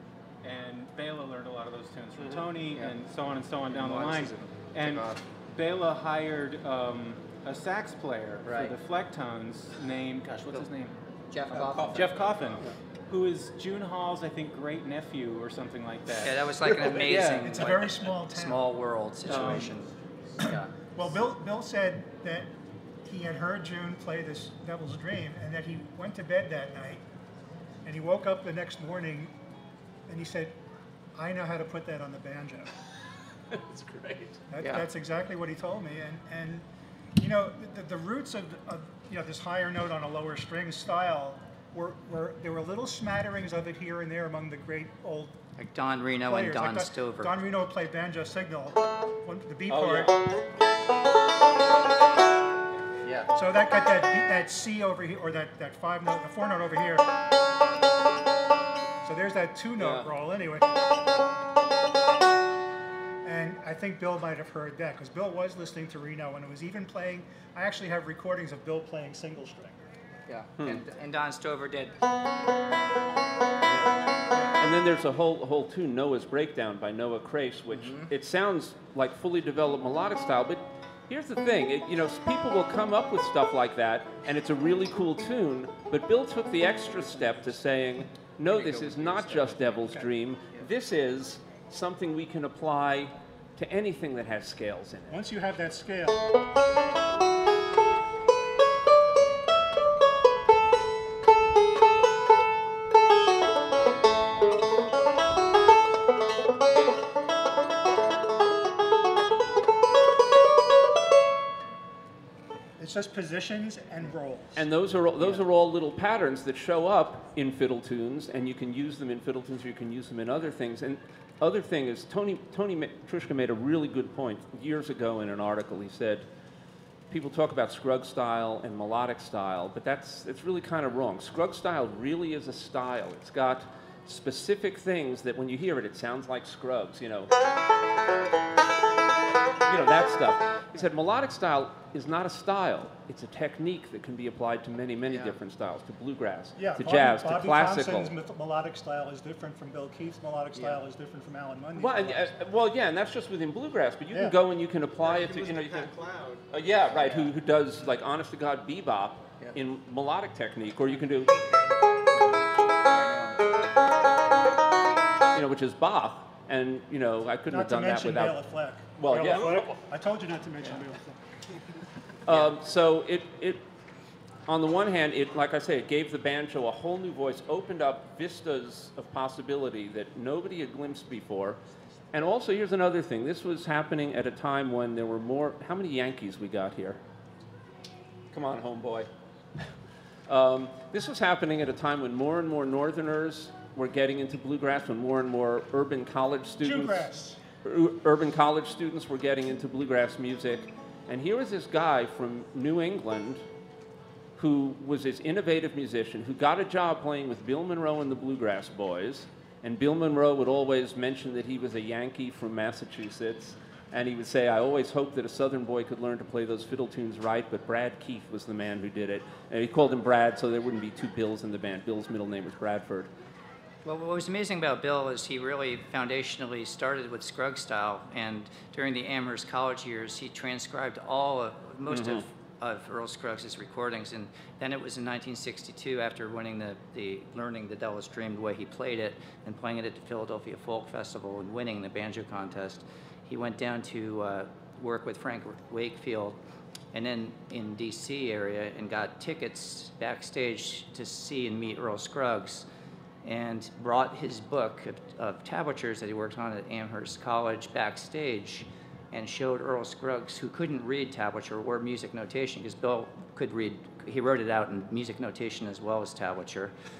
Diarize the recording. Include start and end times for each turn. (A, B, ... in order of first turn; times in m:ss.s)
0:00.4-0:11.0 A
0:03.7-0:05.2 B
0:08.4-0:08.8 B
0:11.3-0:12.2 B
0:11.5-0:17.6 A
0:11.8-0:12.2 C
0:16.2-0:19.9 B
0:17.0-0:17.4 C
0:17.0-0:18.7 D
0:19.3-0:19.7 D
0:19.3-0:19.9 A
0:20.4-0:22.5 D
0:20.4-0:20.7 B
0:23.0-0:27.0 D
0:27.8-0:29.3 D
0:30.1-0:30.6 D
0:31.2-0:32.7 D
0:33.5-0:34.4 C
0:34.5-0:45.4 D
0:34.6-0:34.9 B
0:45.6-0:47.4 B
0:46.2-0:50.2 D
0:49.7-0:50.3 C
0:53.0-0:53.3 B
0:53.3-0:57.1 D
0:59.0-1:00.7 D
0:59.8-1:00.1 C
1:03.2-1:09.8 D
1:10.3-1:12.0 B
1:13.7-1:14.0 C
1:14.6-1:35.2 C
1:17.8-1:18.1 B
1:28.6-1:29.8 B
1:35.1-1:36.3 D
1:52.8-1:54.7 D
1:54.6-2:06.3 C
2:07.1-2:17.3 C
2:19.7-2:28.1 C
2:25.1-2:25.3 B
2:26.6-2:32.3 D
2:31.8-2:35.9 C
2:34.1-2:34.4 D
2:35.0-2:36.4 A
2:36.5-2:41.4 C
2:37.0-2:37.3 B
2:42.9-2:43.5 B
2:45.3-2:48.4 C
2:47.5-2:51.3 D
2:49.0-2:49.7 C
2:52.3-2:53.6 C
2:54.5-3:01.6 C
3:02.1-3:07.0 C
3:08.3-3:09.7 C
3:10.3-3:17.1 C
3:16.6-3:17.4 D
3:17.6-3:23.4 C
3:24.4-3:43.1 C
3:43.8-4:06.4 B
3:51.9-3:52.2 C
4:06.9-4:12.7 B
4:13.2-4:26.7 B